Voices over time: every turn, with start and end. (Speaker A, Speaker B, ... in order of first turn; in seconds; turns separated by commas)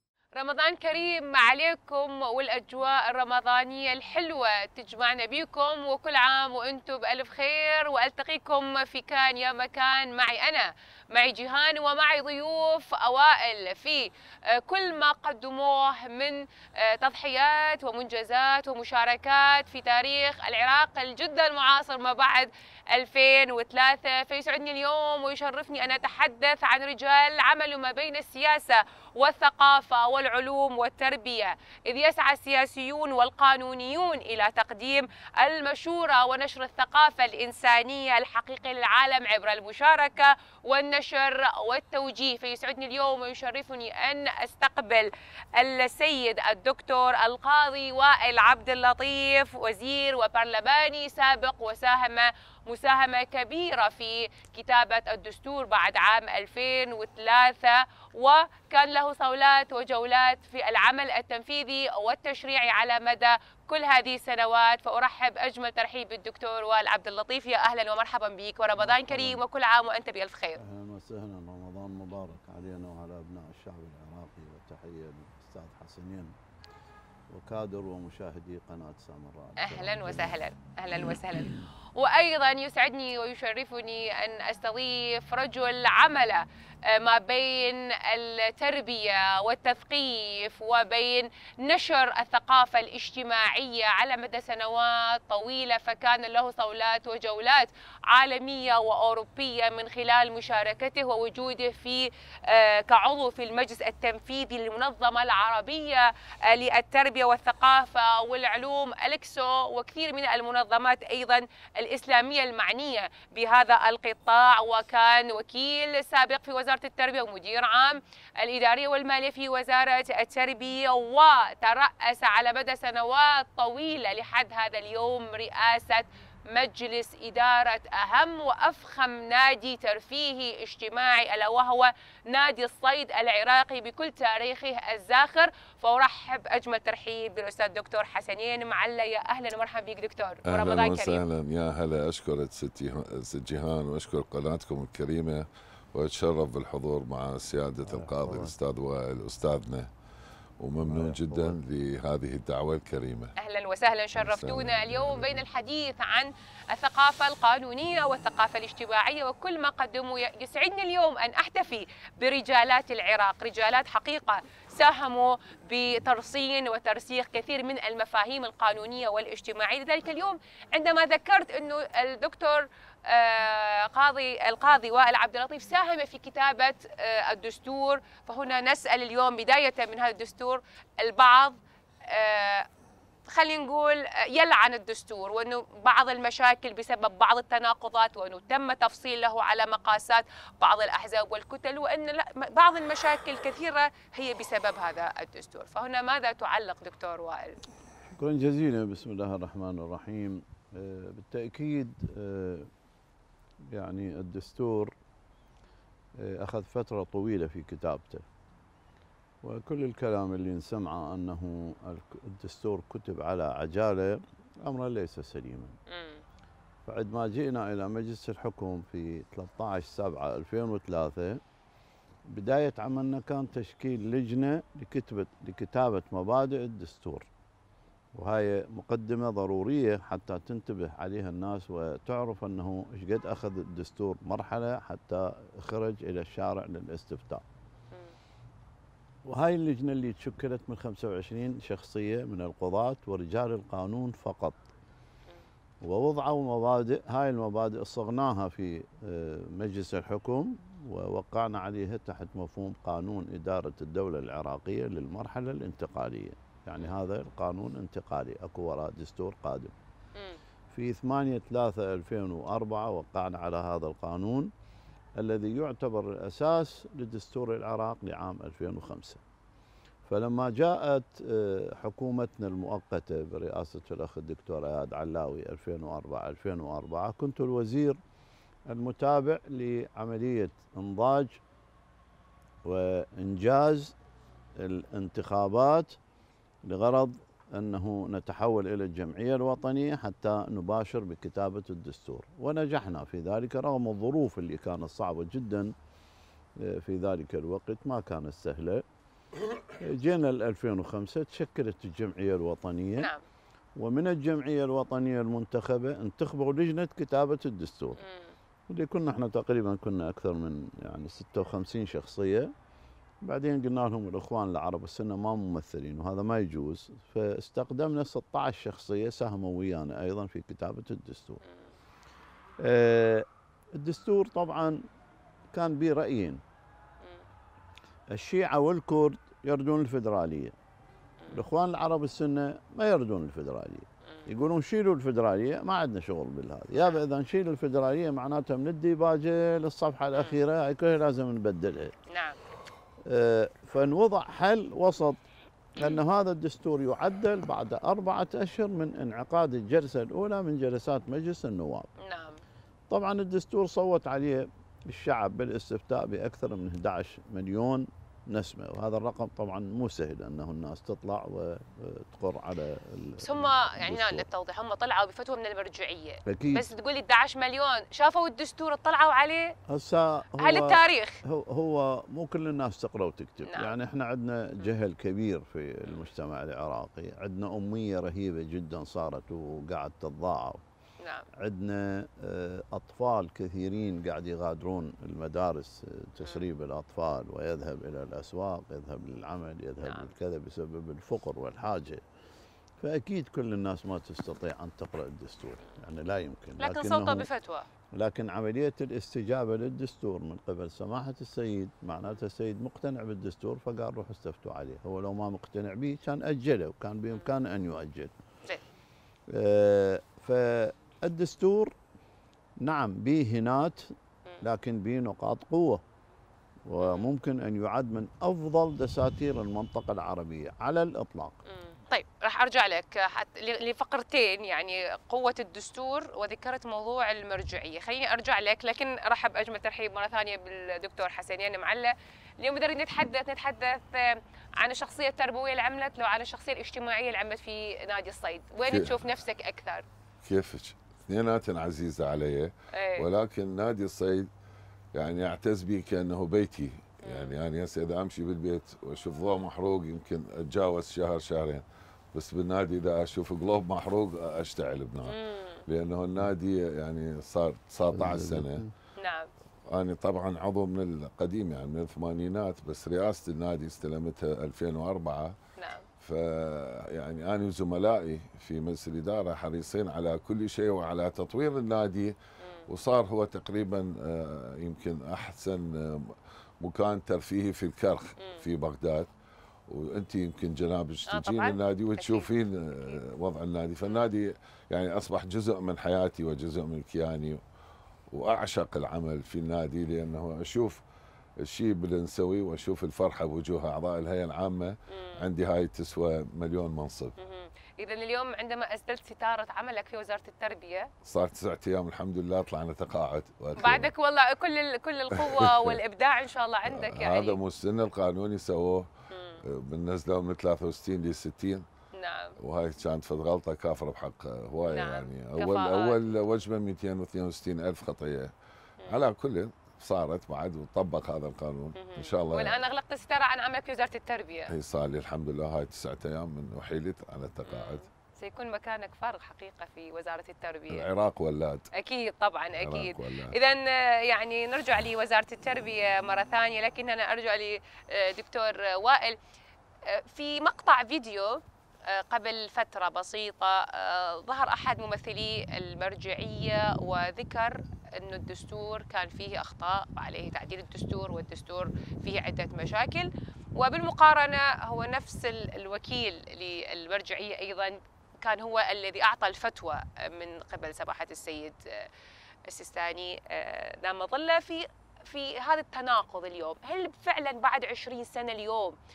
Speaker A: 0.3-70.6, Speaker B: 68.8-69.4, Speaker B: 70.6-76.3, Speaker B: 77.3-80.4, Speaker A: 79.6-141.2, Speaker C: 140.5-149.9, Speaker B: 147.8-148.5, Speaker C: 150.6-153.3, Speaker B: 150.8-151.6, Speaker A: 153.4-182.7, Speaker C: 154.2-154.8, Speaker A: 183.3-197.6, Speaker B: 198.1-202.7, Speaker B: 203.7-204.9, Speaker B: 206.2-208.2, Speaker B: 209.4-215.7, Speaker A: 215.9-216.2, Speaker B: 216.8-221.4, Speaker B: 222.3-227.3, Speaker B: 228.1-237.4, Speaker B: 239.2-244.6, Speaker B: 245.8-259.7, Speaker B: 260.7-264.5, Speaker B: 265.2-269.2, Speaker B: 270.1-278.0, Speaker B: 278.7-281.4, Speaker B: 282.6-283.9, Speaker B: 284.6-285.9, Speaker B: 286.6-295.7, Speaker B: 296.6-298.8, Speaker B: 299.8-303.1, Speaker B: 303.8-308.0, Speaker A: 308.0-308.3, Speaker B: 308.7-312.5, Speaker B: 313.2-321.4, Speaker B: 322.6-323.2, Speaker B: 323.8-324.8, Speaker B: 325.5-326.4, Speaker B: 328.1-330.5, Speaker B: 331.3-341.9, Speaker A: 342.1-342.4, Speaker B: 343.1-345.2, Speaker B: 345.8-351.9, Speaker A: 352.0-352.4, Speaker B: 352.9-364.2, Speaker A: 363.2-369.5, Speaker B: 366.3-366.7, Speaker B: 369.7-380.6, Speaker A: 370.4-371.2, Speaker A: 373.4-373.7, Speaker A: 381.0-381.3, Speaker B: 381.4-392.0, Speaker A: 389.8-390.1, Speaker B: 392.8-397.3, Speaker A: 396.6-397.7, Speaker B: 397.9-408.1, Speaker B: 409.3-411.7, Speaker B: 412.6-415.8, Speaker B: 416.7-421.4, Speaker A: 416.8-417.1, Speaker A: 421.5-439.8, Speaker C: 438.7-439.0, Speaker C: 440.2-444.3, Speaker A: 442.7-443.1, Speaker C: 444.9-455.1, Speaker A: 447.0-447.3, Speaker A: 455.1-455.6, Speaker C: 455.7-458.6, Speaker B: 457.9-458.7, Speaker A: 458.9-459.3, Speaker C: 459.7-465.3, Speaker A: 465.6-465.9, Speaker C: 466.0-472.1, Speaker A: 472.4-472.6, Speaker C: 472.7-479.1, Speaker A: 478.2-478.4, Speaker C: 479.7-487.4, Speaker A: 481.1-483.0, Speaker C: 488.1-490.8, Speaker C: 491.4-497.1, Speaker A: 494.9-495.2, Speaker A: 497.2-500.9, Speaker C: 501.0-503.9, Speaker A: 503.6-507.4, Speaker C: 506.6-508.9, Speaker A: 509.1-509.4, Speaker C: 509.4-511.6, Speaker A: 511.9-512.4, Speaker C: 512.4-518.3, Speaker A: 514.6-516.0, Speaker C: 518.9-522.6, Speaker A: 521.8-524.5, Speaker C: 524.5-527.8, Speaker A: 527.4-530.9, Speaker C: 530.7-531.7, Speaker A: 531.7-539.1, Speaker C: 532.6-533.3, Speaker A: 539.9-561.9, Speaker A: 562.5-568.8